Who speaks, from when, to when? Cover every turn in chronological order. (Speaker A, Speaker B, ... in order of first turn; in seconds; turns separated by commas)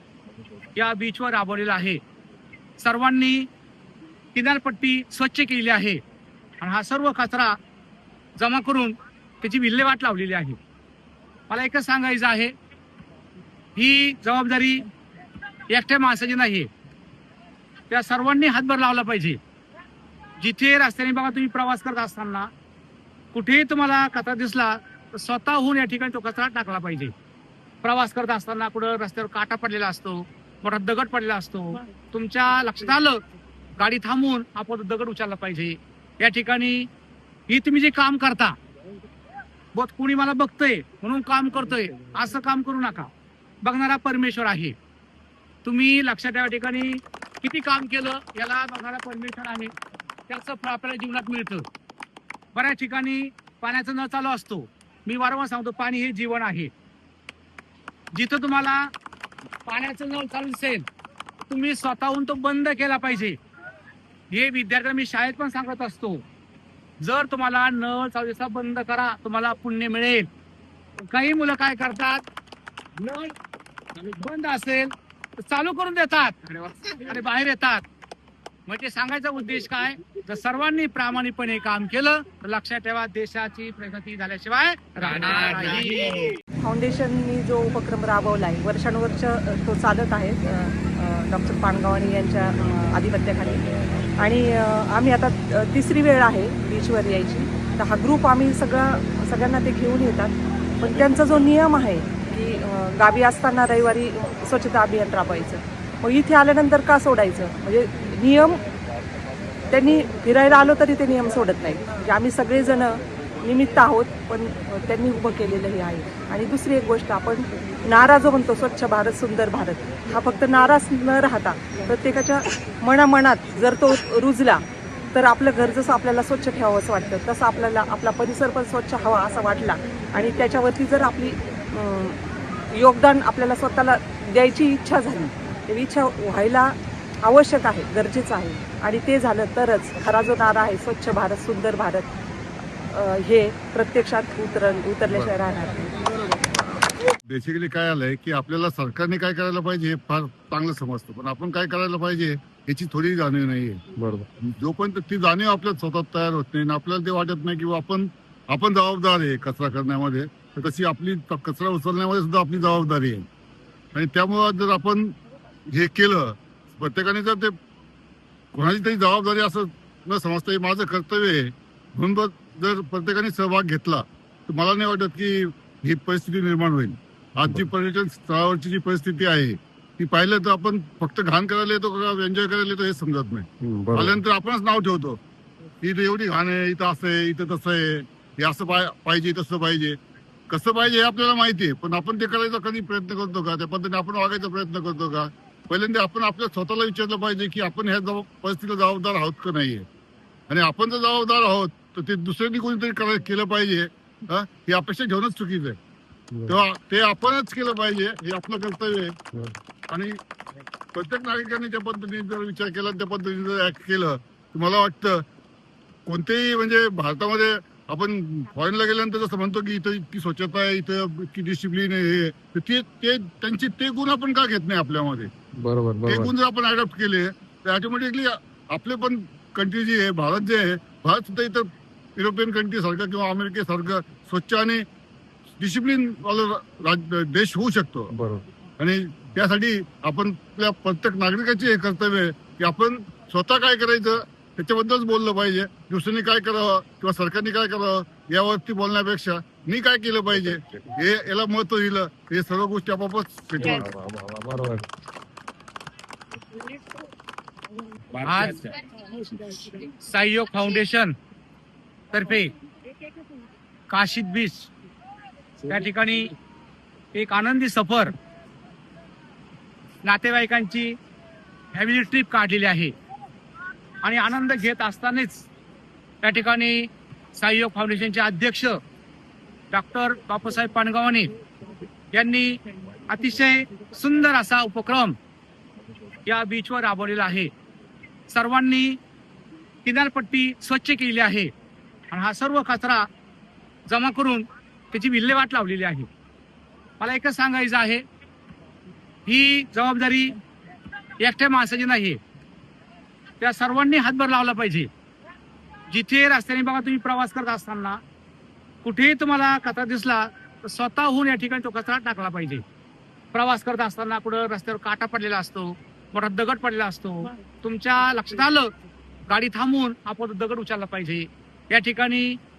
Speaker A: 0.8-2.0, Speaker A: 2.8-3.5, Speaker A: 4.3-6.0, Speaker A: 6.6-7.5, Speaker A: 8.4-10.6, Speaker A: 11.5-12.5, Speaker A: 13.8-14.8, Speaker A: 15.7-16.7, Speaker A: 17.9-19.4, Speaker A: 20.4-22.5, Speaker A: 23.3-27.1, Speaker A: 27.8-33.2, Speaker A: 33.8-36.9, Speaker A: 37.5-38.5, Speaker A: 39.7-43.1, Speaker A: 43.6-44.7, Speaker A: 45.6-49.7, Speaker A: 50.3-51.6, Speaker A: 52.5-56.7, Speaker A: 58.1-58.9, Speaker A: 59.6-60.9, Speaker A: 61.5-63.4, Speaker A: 64.3-66.2, Speaker A: 67.0-70.3, Speaker A: 71.1-72.2, Speaker A: 73.0-73.3, Speaker A: 74.0-74.9, Speaker A: 75.5-77.8, Speaker A: 78.7-86.1, Speaker B: 86.6-93.6, Speaker B: 94.2-108.6, Speaker B: 109.7-124.6, Speaker B: 125.1-132.2, Speaker B: 132.7-142.1, Speaker B: 142.9-145.8, Speaker C: 145.1-145.4, Speaker D: 147.2-153.8, Speaker C: 154.0-154.2, Speaker D: 154.4-163.2, Speaker D: 163.9-165.1, Speaker D: 165.7-167.5, Speaker D: 168.5-185.2, Speaker C: 183.7-184.1, Speaker D: 185.8-190.0, Speaker D: 190.5-199.8, Speaker D: 200.5-205.8, Speaker D: 206.5-209.2, Speaker D: 209.9-210.2, Speaker D: 210.9-215.2, Speaker D: 216.1-225.3, Speaker C: 225.6-226.3, Speaker D: 226.0-234.8, Speaker D: 235.6-238.1, Speaker D: 238.8-253.9, Speaker C: 253.8-254.7, Speaker A: 258.2-258.7, Speaker A: 259.6-261.1, Speaker A: 262.1-262.5, Speaker A: 263.9-264.7, Speaker A: 265.7-266.3, Speaker A: 267.1-268.1, Speaker A: 270.0-270.9, Speaker A: 271.7-272.9, Speaker A: 274.0-275.5, Speaker A: 276.2-278.8, Speaker A: 279.7-281.3, Speaker A: 282.1-282.5, Speaker A: 283.1-285.1, Speaker A: 286.2-287.5, Speaker A: 288.3-289.0, Speaker A: 289.8-291.5, Speaker A: 292.1-293.1, Speaker A: 293.9-296.1, Speaker A: 297.0-298.0, Speaker A: 299.2-300.4, Speaker A: 301.2-302.2, Speaker A: 303.4-304.9, Speaker A: 305.9-308.0, Speaker A: 308.8-312.6, Speaker A: 313.3-318.7, Speaker A: 319.3-322.4